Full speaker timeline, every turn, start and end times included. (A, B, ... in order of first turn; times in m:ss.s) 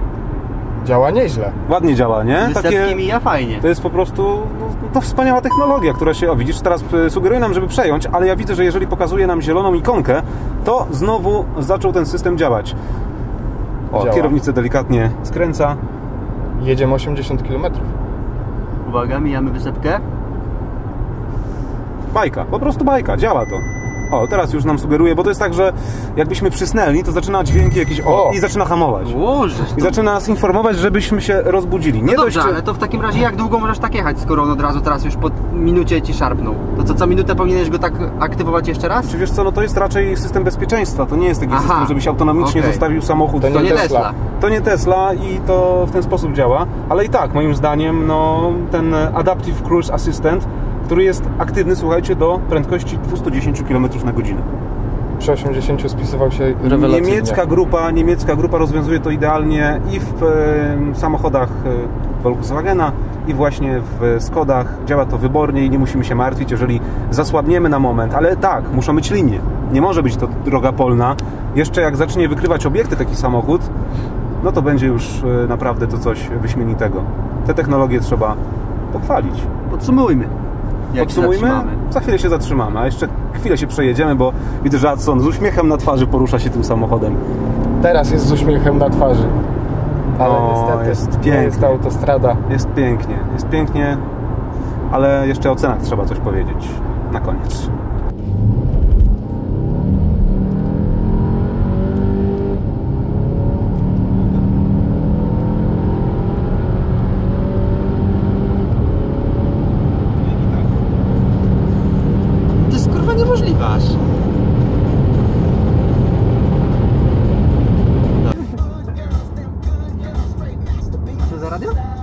0:00.8-0:01.6 A
0:01.7-0:03.0 B
0:02.4-0:03.6 C
0:03.6-0:12.7 B
0:13.9-0:15.8 B
0:13.9-0:14.4 A
0:16.6-0:17.9 A
0:18.8-0:20.0 C
0:22.1-0:29.2 B
0:28.0-0:28.4 A
0:29.0-0:30.0 C
0:29.8-0:32.6 B
0:32.1-0:39.1 C
0:39.1-0:54.5 B
0:41.5-0:42.8 C
0:43.4-0:44.1 A
0:43.5-0:44.1 C
0:55.2-0:57.4 A
0:56.6-1:13.7 B
1:14.4-1:18.4 B
1:18.9-1:19.5 B
1:19.7-1:20.3 C
1:20.9-1:21.8 C
1:21.0-1:27.2 B
1:27.8-1:29.4 A
1:30.2-1:32.4 A
1:30.2-1:31.8 B
1:32.5-1:34.0 B
1:34.9-1:37.7 B
1:52.6-1:54.0 C
2:01.1-2:01.8 C